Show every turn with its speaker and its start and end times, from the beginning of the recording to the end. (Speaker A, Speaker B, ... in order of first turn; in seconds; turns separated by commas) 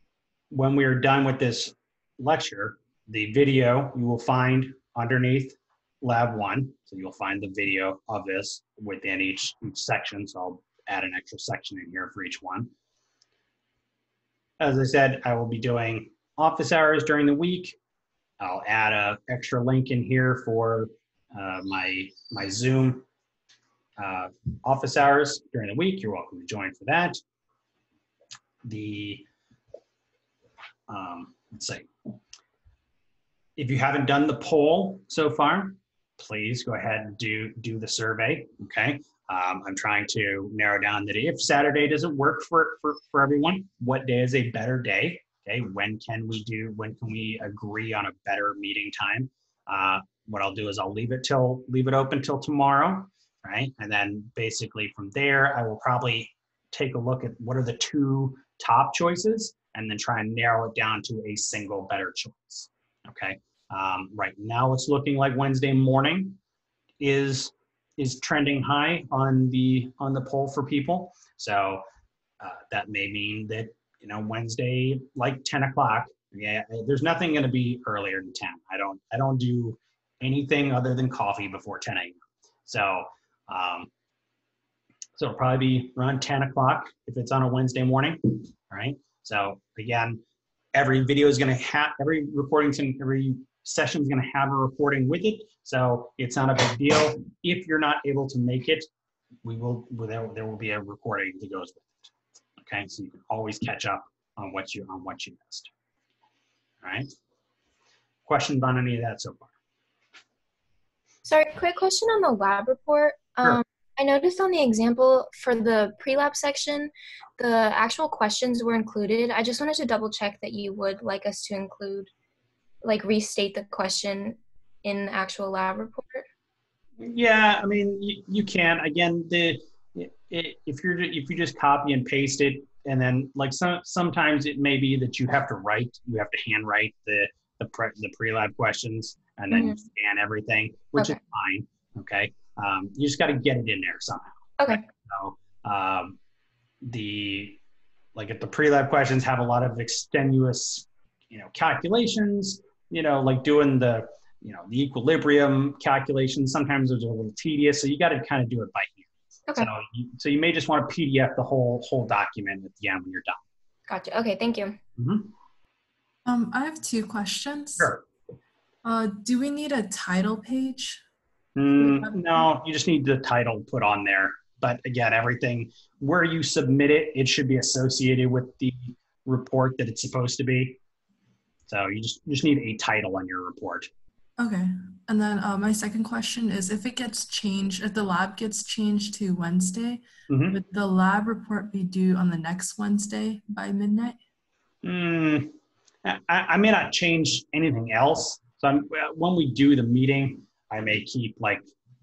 Speaker A: 0.5-12.7, Speaker A: 14.6-17.8, Speaker A: 18.4-23.1, Speaker A: 24.0-27.2, Speaker A: 28.6-29.3, Speaker A: 30.9-31.9, Speaker A: 33.6-66.4, Speaker A: 67.0-71.8, Speaker A: 72.4-83.9, Speaker A: 85.2-90.2, Speaker A: 90.7-98.9, Speaker A: 99.4-105.7, Speaker A: 106.8-107.1, Speaker A: 108.3-109.5, Speaker B: 111.2-122.1, Speaker B: 122.8-126.2, Speaker A: 127.0-146.2, Speaker B: 139.5-139.8, Speaker A: 146.8-147.6, Speaker A: 148.2-163.4, Speaker B: 163.9-164.8, Speaker A: 165.0-165.3, Speaker C: 166.3-167.9, Speaker A: 167.8-168.0, Speaker C: 168.8-171.0, Speaker A: 171.6-180.8, Speaker C: 171.8-172.2, Speaker A: 181.7-183.9, Speaker C: 184.4-194.2, Speaker A: 190.3-190.6, Speaker A: 194.8-201.6